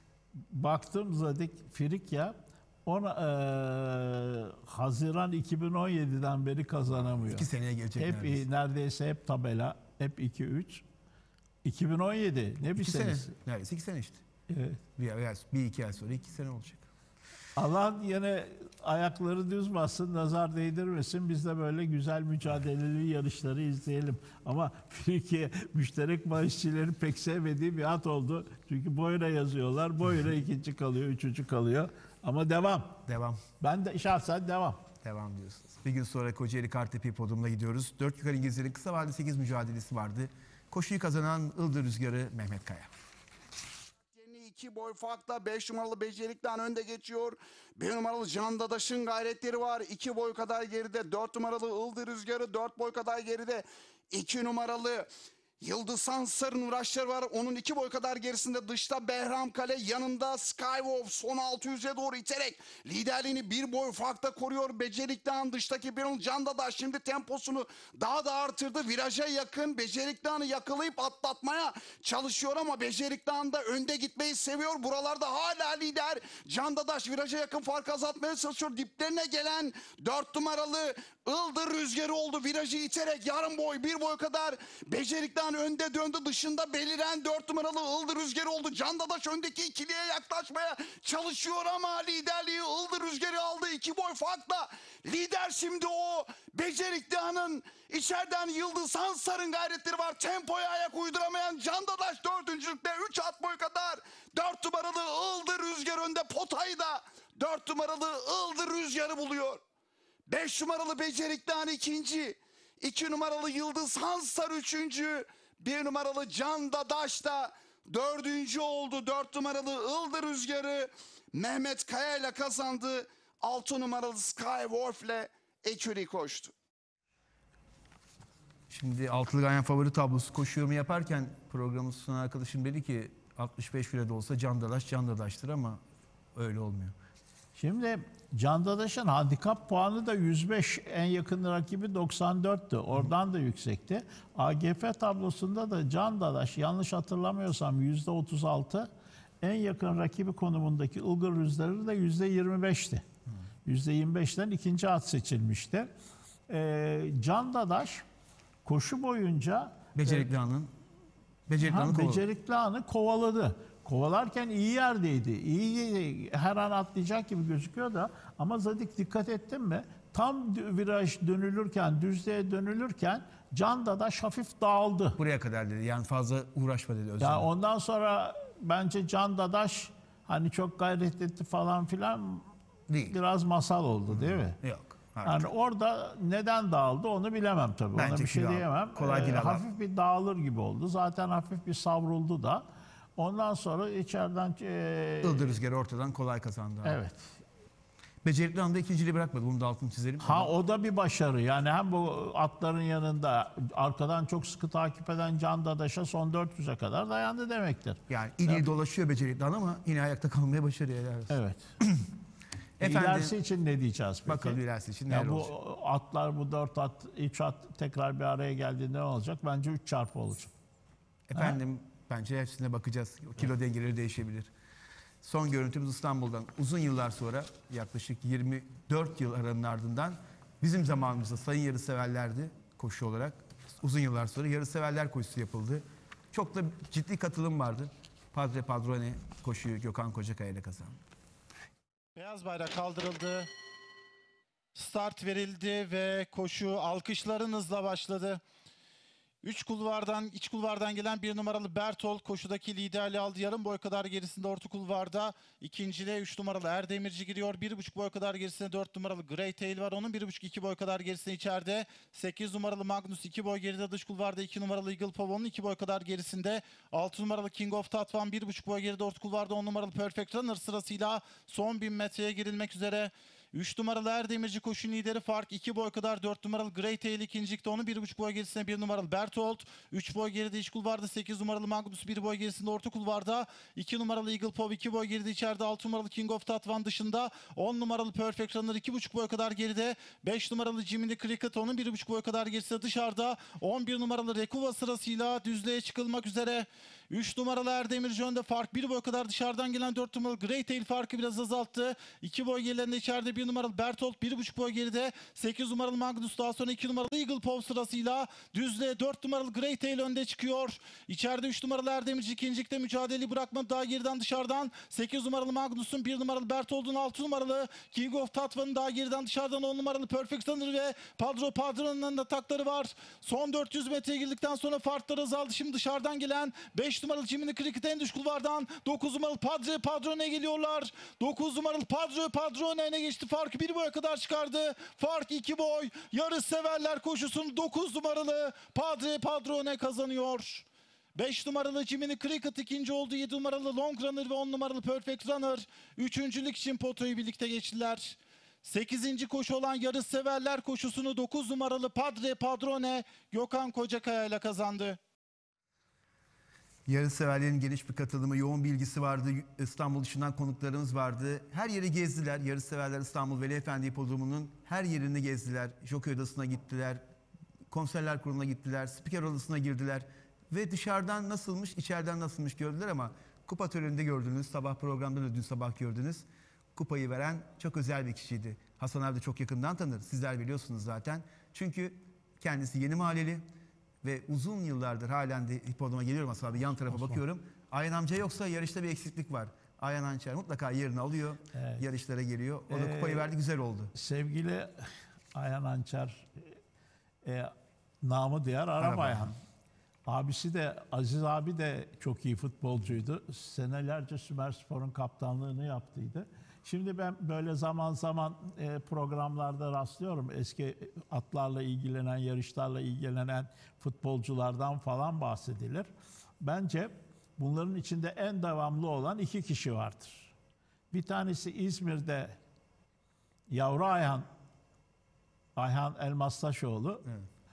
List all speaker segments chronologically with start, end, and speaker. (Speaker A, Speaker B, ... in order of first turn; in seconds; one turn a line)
Speaker A: 0.5-10.8
Speaker B: 6.9-8.4
Speaker A: 11.6-13.3
Speaker B: 12.7-14.2
Speaker A: 14.5-14.8
Speaker B: 14.9-16.9
Speaker A: 17.6-33.0
Speaker B: 33.0-33.4
Speaker A: 33.6-34.8
Speaker B: 35.0-42.9
Speaker C: 44.1-55.1
Speaker C: 55.6-109.6
Speaker C: 110.3-126.5
Speaker B: 128.7-135.8
Speaker B: 136.3-136.9
Speaker A: 137.6-148.9
Speaker A: 149.4-153.0
Speaker A: 153.6-155.9
Speaker A: 156.5-158.1
Speaker A: 158.6-160.2
Speaker B: 159.9-160.7
Speaker B: 161.5-162.2
Speaker A: 161.6-175.2
Speaker B: 175.2-177.5
Speaker A: 177.2-182.5
Speaker B: 182.9-183.2
Speaker A: 183.1-184.6
Speaker B: 184.1-185.5
Speaker A: 185.2-192.6
Speaker B: 187.9-189.6
Speaker A: 193.2-195.5
Speaker B: 195.2-197.0
Speaker A: 196.8-197.3
Speaker B: 198.2-200.5
Speaker A: 200.2-208.7
Speaker B: 208.1-212.0
Speaker A: 211.3-211.7
Speaker B: 212.8-213.3
Speaker A: 212.8-220.5
Speaker B: 214.2-215.5
Speaker B: 221.3-224.5
Speaker B: 225.2-240.9
Speaker D: 242.2-243.5
Speaker D: 244.7-248.4
Speaker D: 249.4-355.0
Speaker B: 356.9-367.0
Speaker B: 367.7-383.4
Speaker B: 384.0-393.9
Speaker A: 386.9-387.2
Speaker A: 391.5-391.8
Speaker A: 392.7-393.4
Speaker A: 393.9-396.5
Speaker A: 397.2-399.3
Speaker B: 398.8-399.3
Speaker A: 400.1-415.9
Speaker A: 416.4-420.3
Speaker A: 420.9-422.4
Speaker A: 423.5-424.3
Speaker A: 425.6-427.1